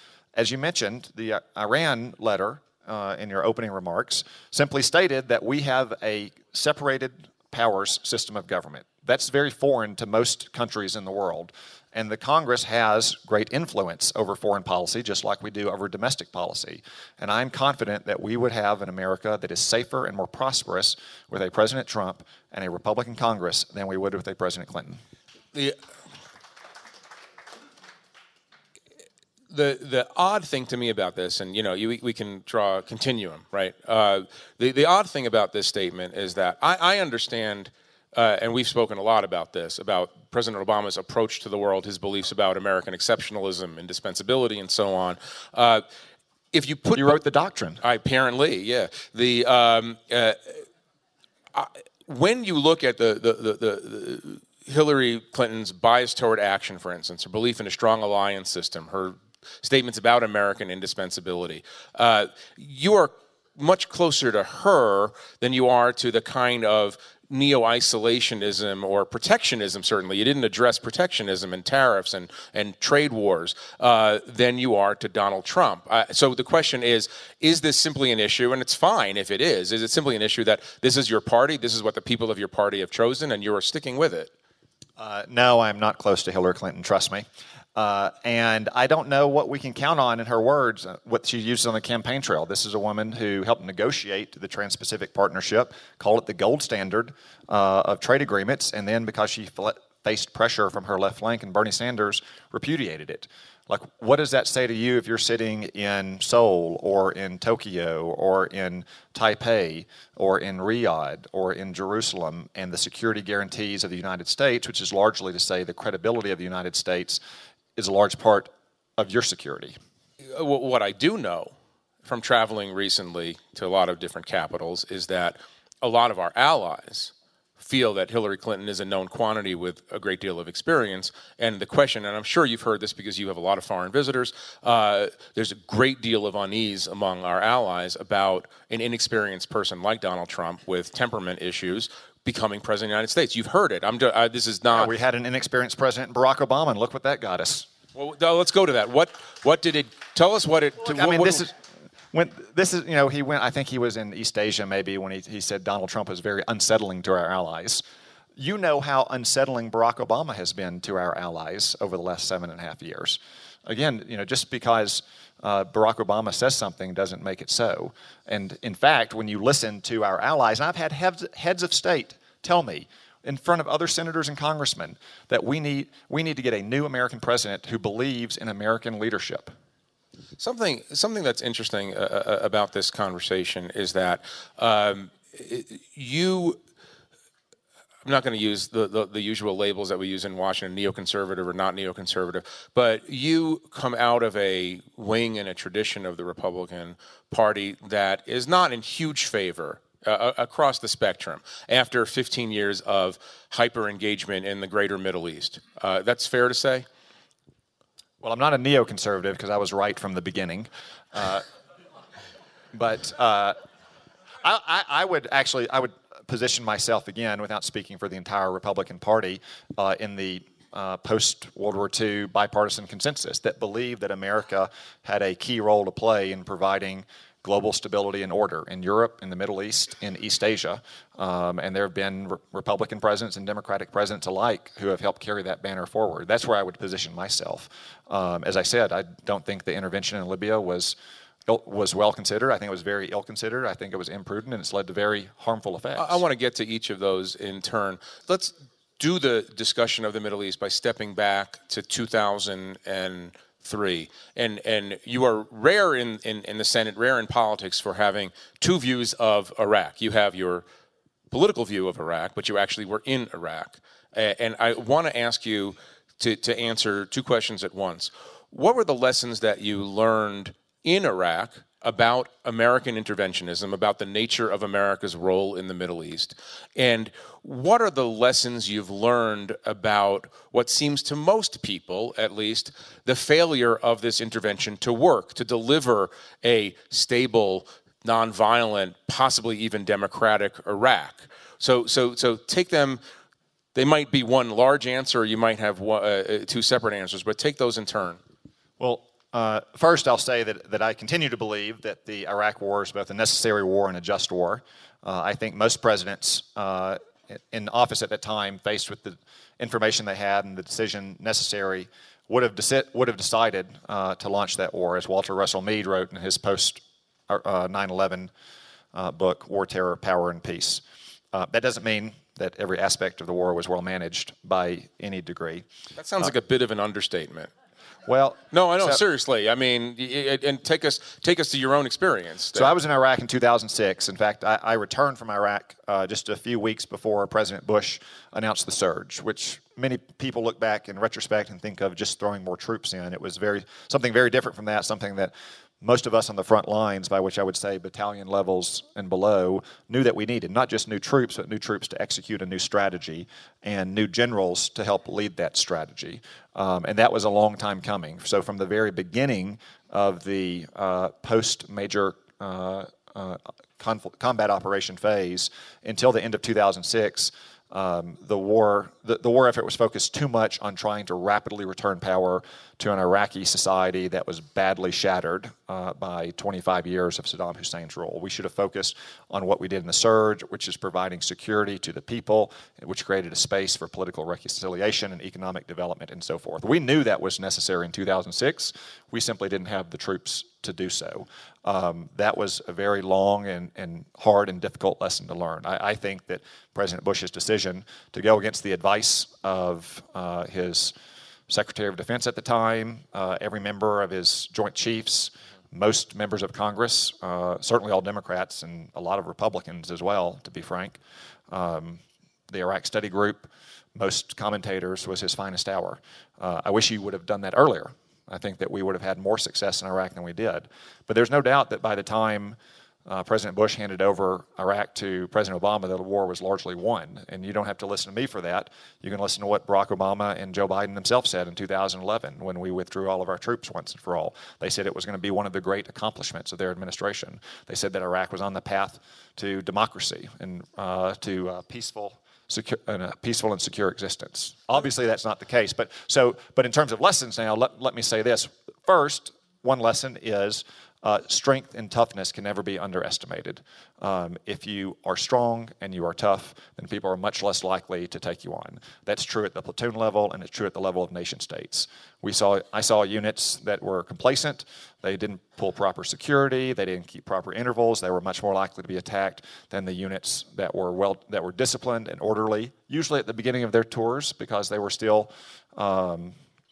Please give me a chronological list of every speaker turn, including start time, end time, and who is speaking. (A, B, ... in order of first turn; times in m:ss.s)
0:00.3-0:25.0 A
0:29.5-0:45.8 B
0:46.5-0:47.2 B
0:46.9-0:47.8 A
0:47.8-0:50.6 B
0:51.5-1:24.3 B
1:25.0-1:57.2 A
1:57.8-1:59.8 A
2:00.2-2:01.5 B
2:02.0-2:24.9 B
2:24.7-2:27.7 A
2:27.9-2:31.4 B
2:30.8-2:31.6 A
2:32.1-2:37.8 A
2:38.4-2:59.5 A
3:00.4-3:06.6 B
3:08.0-3:26.8 B
3:28.2-3:31.4 A
3:32.7-3:33.6 A
3:34.4-4:00.9 A
4:01.4-4:06.2 A
4:06.0-4:20.6 B
4:21.3-4:53.0 B
4:53.7-4:58.2 B
4:58.8-5:18.3 A
5:18.9-5:20.8 A
5:21.3-5:25.6 A
5:26.0-5:27.5 B
5:28.0-5:29.0 A
5:28.5-5:32.7 B
5:32.5-6:40.9 A
6:41.5-6:51.0 A
6:51.5-7:56.4 A